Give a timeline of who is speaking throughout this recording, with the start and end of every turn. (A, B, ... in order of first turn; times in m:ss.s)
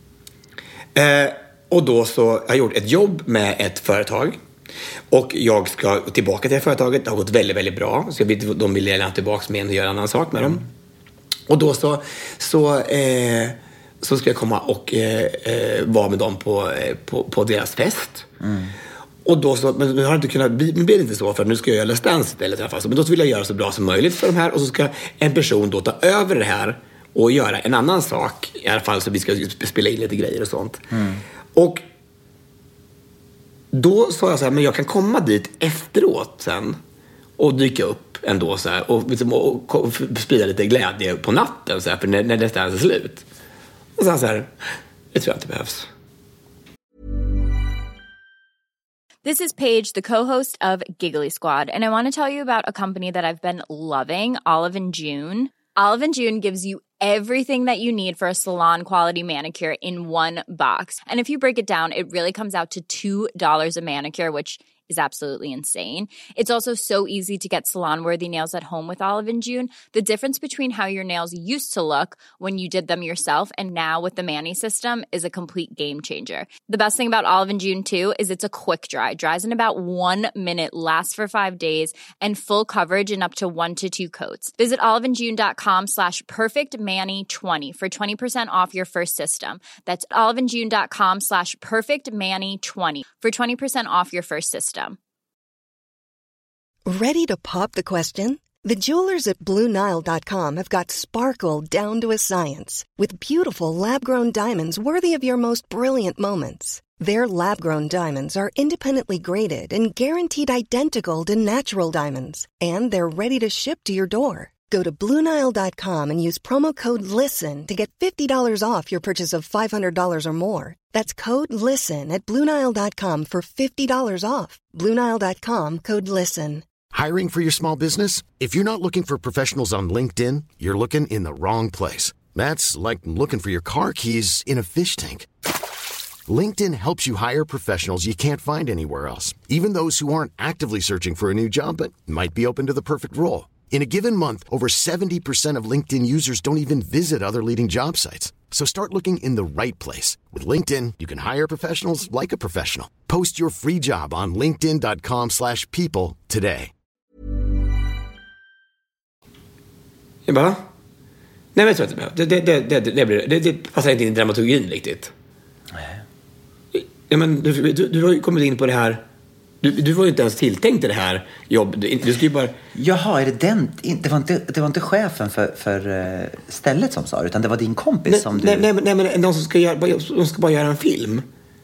0:00.9-0:04.4 A
0:05.1-0:10.6 A
0:11.5-0:18.3 A
0:18.4-0:18.7 B
0:19.2-0:30.8 A
0:30.9-0:31.2 B
0:31.5-0:31.8 A
0:33.7-0:36.8 A
0:37.4-0:43.2 A
0:44.0-0:44.5 A
0:45.1-0:45.9 A
0:49.2-1:35.0 C
1:36.9-2:06.6 D
2:06.9-2:15.3 E
2:16.3-2:36.7 E
2:40.2-2:40.6 A
2:41.5-2:45.1 A
2:45.7-2:46.0 B
2:46.7-2:49.0 A
2:49.6-2:52.5 A
2:52.7-2:58.7 B
2:58.1-3:01.2 A